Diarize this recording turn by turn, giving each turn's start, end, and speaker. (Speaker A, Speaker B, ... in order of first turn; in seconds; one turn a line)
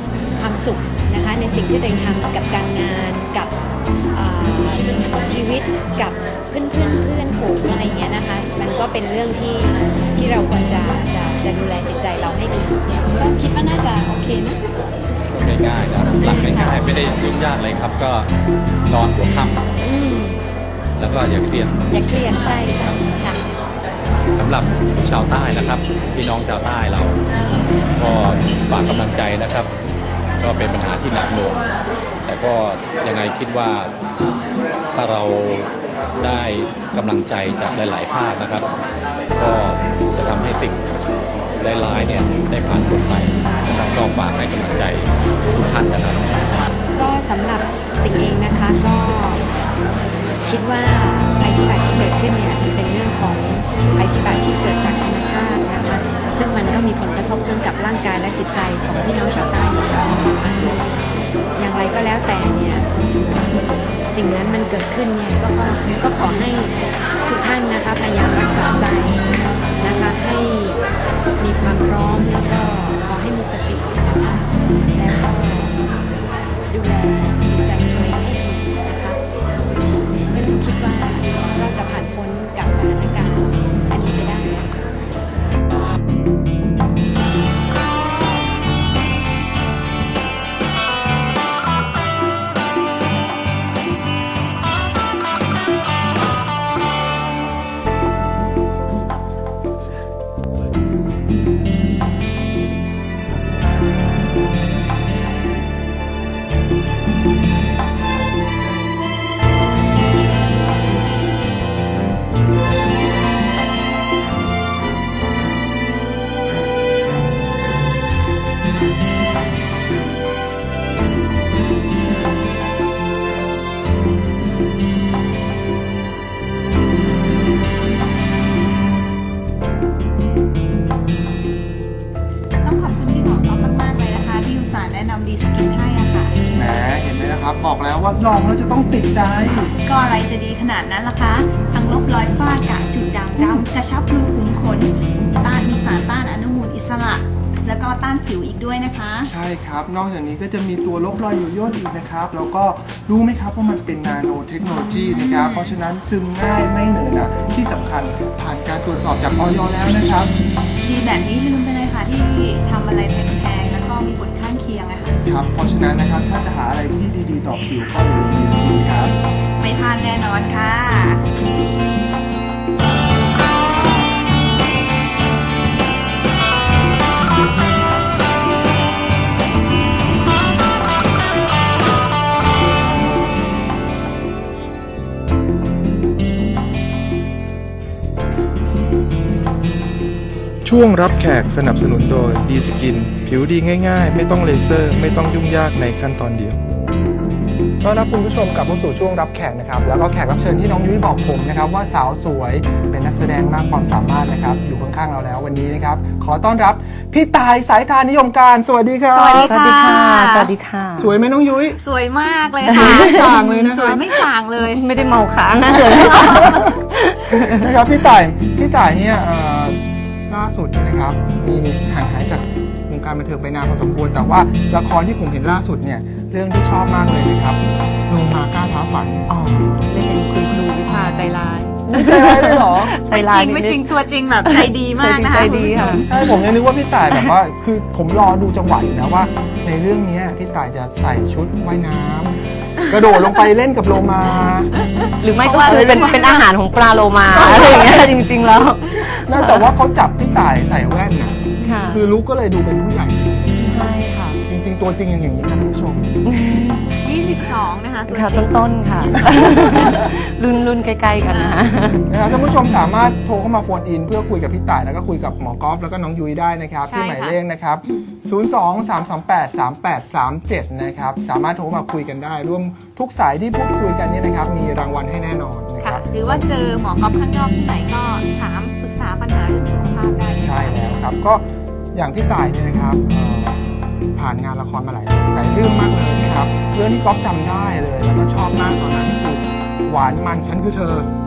Speaker A: 0.3-3.5
Speaker A: 4.1-14.6
Speaker B: 15.3-18.3
Speaker A: 16.2-16.8
Speaker B: 18.9-19.7
Speaker A: 19.8-20.4
Speaker B: 21.0-21.8
Speaker A: 21.9-23.4
Speaker B: 24.4-27.2
Speaker B: 27.9-29.7
Speaker B: 30.4-31.7
Speaker B: 32.2-33.9
Speaker B: 34.9-38.8
Speaker B: 39.4-40.8
Speaker B: 41.5-46.7
Speaker A: 46.9-49.4
Speaker A: 50.4-60.9
Speaker A: 61.5-62.9
Speaker A: 64.1-69.2
Speaker A: 69.8-70.8
Speaker A: 71.4-75.9
Speaker A: 76.7-79.2
Speaker A: 80.3-84.8
Speaker C: 132.6-136.3
Speaker D: 136.5-139.8
Speaker C: 139.8-149.3
Speaker D: 143.4-143.7
Speaker D: 149.2-160.3
Speaker C: 155.1-155.8
Speaker C: 160.8-165.2
Speaker D: 165.2-169.1
Speaker C: 169.6-171.3
Speaker D: 190.6-196.6
Speaker D: 197.8-209.6
Speaker C: 209.1-210.5
Speaker E: 209.3-211.1
Speaker D: 211.0-211.8
Speaker C: 211.8-214.8
Speaker E: 212.6-213.4
Speaker D: 212.7-214.1
Speaker E: 214.6-217.7
Speaker C: 216.0-216.6
Speaker D: 216.3-216.7
Speaker D: 217.3-229.3
Speaker E: 229.3-233.9
Speaker D: 230.9-232.9
Speaker C: 233.0-236.0
Speaker E: 234.4-236.0
Speaker D: 235.8-244.7
Speaker E: 237.1-237.3
Speaker C: 244.8-246.5
Speaker E: 245.2-249.7
Speaker D: 245.6-246.0
Speaker C: 247.3-248.1
Speaker D: 249.2-253.9
Speaker C: 251.6-251.9
Speaker E: 251.6-252.0
Speaker E: 253.6-254.4
Speaker D: 254.5-256.1
Speaker E: 256.2-256.9
Speaker C: 257.0-260.0
Speaker E: 258.1-262.1
Speaker D: 259.1-260.1
Speaker C: 261.3-261.8
Speaker D: 262.1-276.5
Speaker C: 266.8-267.4
Speaker C: 275.8-280.8
Speaker D: 280.4-291.1